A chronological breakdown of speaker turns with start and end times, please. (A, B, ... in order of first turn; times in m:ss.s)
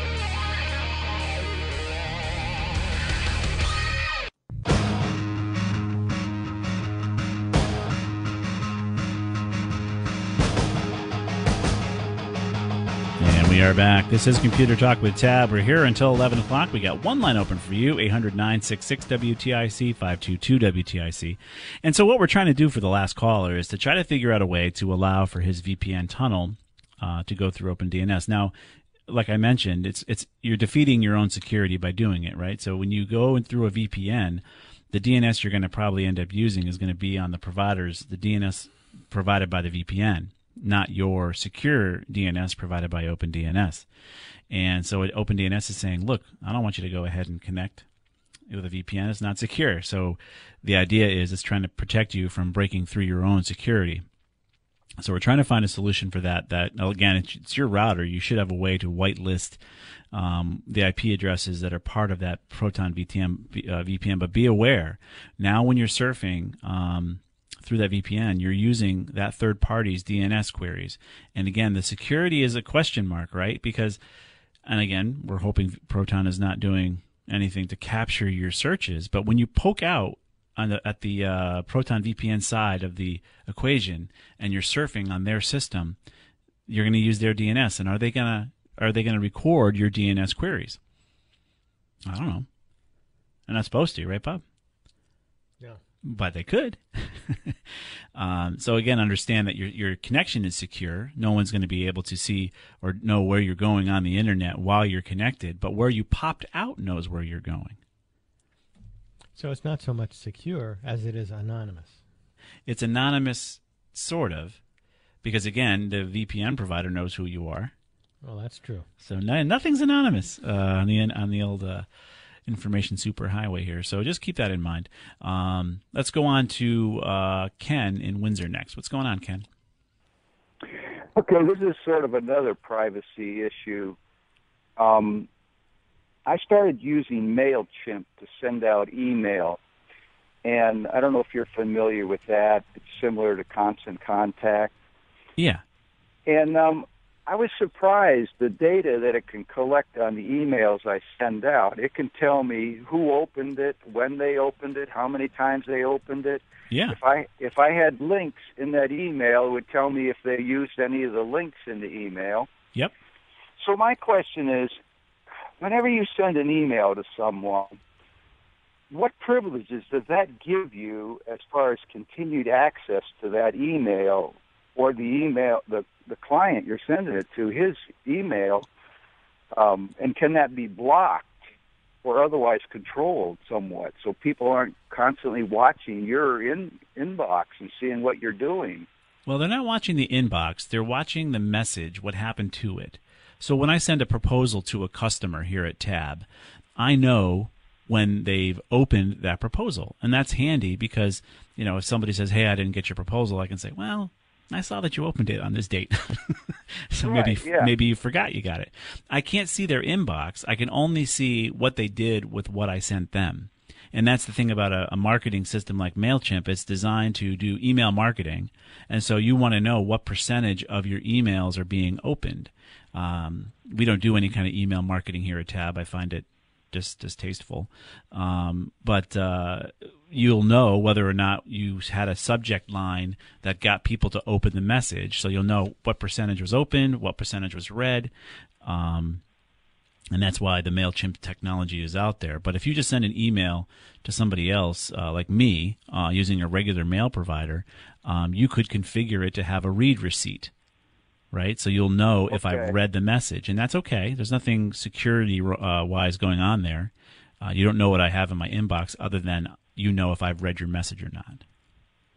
0:13.2-0:28.5 A
0:29.1-0:43.9 A
0:44.5-0:47.8 A
0:48.5-0:54.0 A
0:55.0-0:59.6 A
1:00.1-1:14.0 A
1:14.7-1:26.0 A
1:26.7-1:30.8 A
1:32.1-1:32.5 A
1:33.5-1:34.4 A
1:36.0-1:37.6 A
1:38.2-1:47.8 A
1:49.4-1:52.0 B
1:52.7-1:54.6 A
1:55.2-1:57.7 A
1:58.2-1:58.9 B
1:59.0-2:01.9 A
2:02.5-2:09.5 A
2:11.2-2:14.0 C
2:14.8-2:15.3 C
2:16.3-2:19.6 C
2:20.4-2:24.7 C
2:26.3-2:42.5 C
2:36.7-2:37.0 A
2:43.6-2:44.8 C
2:45.6-2:47.8 C
2:48.9-2:58.7 C
2:59.5-3:01.3 C
3:02.0-3:08.9 C
3:09.3-3:16.2 A
3:16.8-3:58.1 A
3:27.0-3:27.7 C
3:58.6-3:59.2 A
4:00.1-4:10.5 A
4:11.3-4:21.4 A
4:12.3-4:12.7 C